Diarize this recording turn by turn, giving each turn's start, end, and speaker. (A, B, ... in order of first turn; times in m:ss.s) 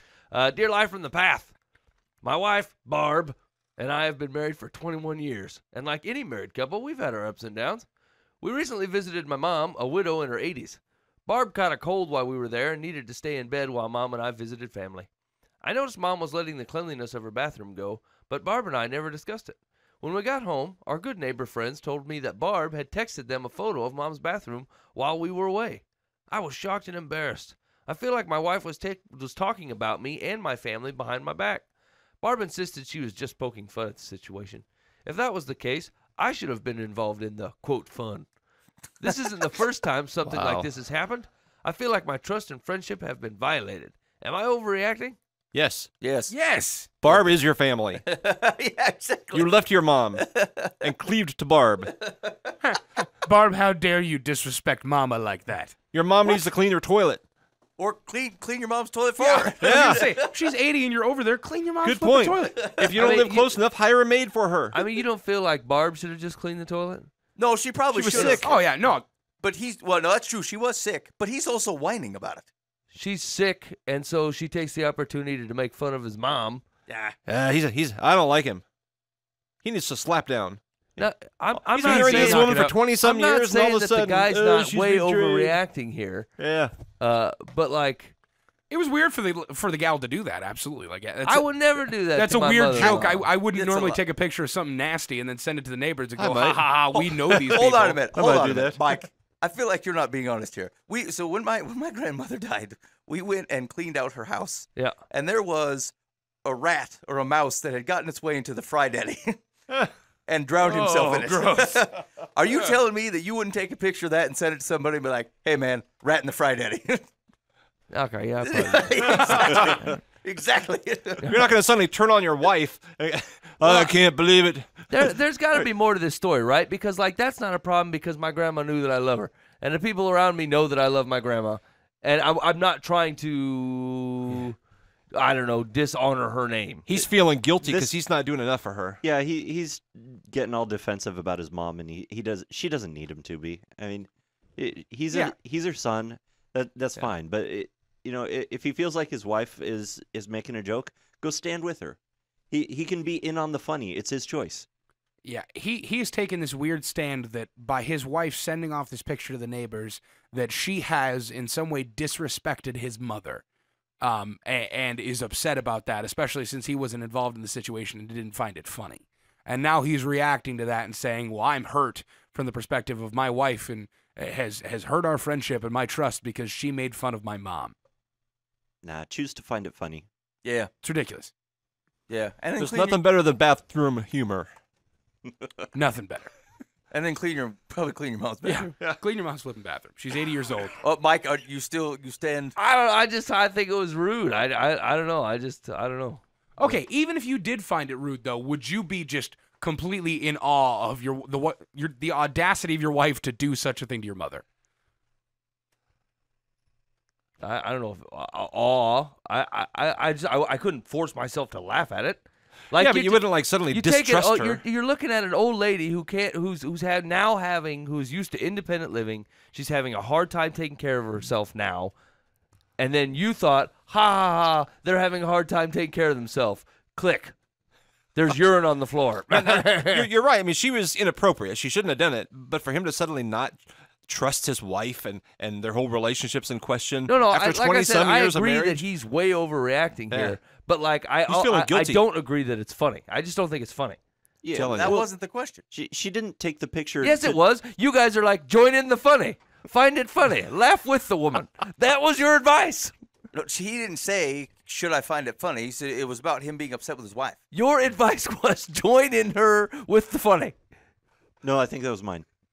0:00.3-0:01.5 A
0:02.2-0:07.8 A
0:08.4-0:15.1 A
0:15.6-0:31.6 A
0:32.2-0:38.3 A
0:39.0-0:45.2 A
0:40.2-0:40.7 B
0:45.5-0:45.9 B
0:46.0-0:46.3 C
0:46.3-0:46.9 D
0:47.0-0:48.0 B
0:48.0-0:49.5 C
0:49.3-0:52.0 B
0:50.2-0:50.6 C
0:52.6-0:55.8 D
0:55.9-0:57.2 B
0:57.8-1:00.3 C
0:59.2-1:02.7 D
0:59.6-1:00.2 B
1:01.8-1:04.8 B
1:02.6-1:03.2 C
1:03.0-1:03.3 A
1:04.7-1:07.1 A
1:07.4-1:08.6 C
1:07.9-1:08.5 B
1:08.3-1:09.0 D
1:09.4-1:12.5 C
1:12.9-1:16.6 A
1:16.9-1:17.2 C
1:17.2-1:18.6 B
1:19.6-1:21.0 B
1:21.0-1:26.3 A
1:21.7-1:25.6 B
1:21.8-1:22.7 D
1:26.4-1:26.7 B
1:27.0-1:28.1 A
1:28.7-1:38.5 D
1:31.2-1:33.3 A
1:32.8-1:33.1 B
1:33.5-1:34.0 C
1:36.2-1:37.6 B
1:37.1-1:45.9 C
1:38.1-1:38.8 B
1:46.4-1:49.4 C
1:50.3-1:57.0 C
1:50.6-1:51.8 B
1:57.9-1:59.9 A
1:58.5-2:01.3 C
2:01.2-2:05.1 B
2:03.6-2:03.9 A
2:04.9-2:14.6 A
2:15.1-2:16.9 A
2:16.9-2:19.0 B
2:17.6-2:17.9 E
2:19.0-2:32.0 E
2:32.5-2:34.6 E
2:35.2-2:43.4 D
2:44.0-2:57.7 D
2:58.8-3:00.0 E
3:00.4-3:00.7 C
3:00.8-3:01.3 D
3:02.1-3:03.0 C
3:02.6-3:04.5 B
3:05.7-3:06.3 D
3:06.9-3:08.7 C
3:08.4-3:10.8 D
3:10.8-3:12.5 C
3:12.6-3:16.2 A
3:16.6-3:24.4 D
3:27.4-3:41.9 A
3:32.8-3:34.6 B
3:42.8-3:47.3 A
3:48.1-3:50.1 A
3:49.3-3:58.8 B
3:57.1-4:04.0 A
4:00.1-4:00.4 B
4:01.3-4:02.0 B
4:04.4-4:05.0 E
4:04.5-4:05.6 C
4:04.5-4:05.1 B
4:05.7-4:07.4 E
4:07.0-4:12.9 A
4:13.3-4:17.4 C
4:17.5-4:20.5 A
4:21.4-4:22.2 E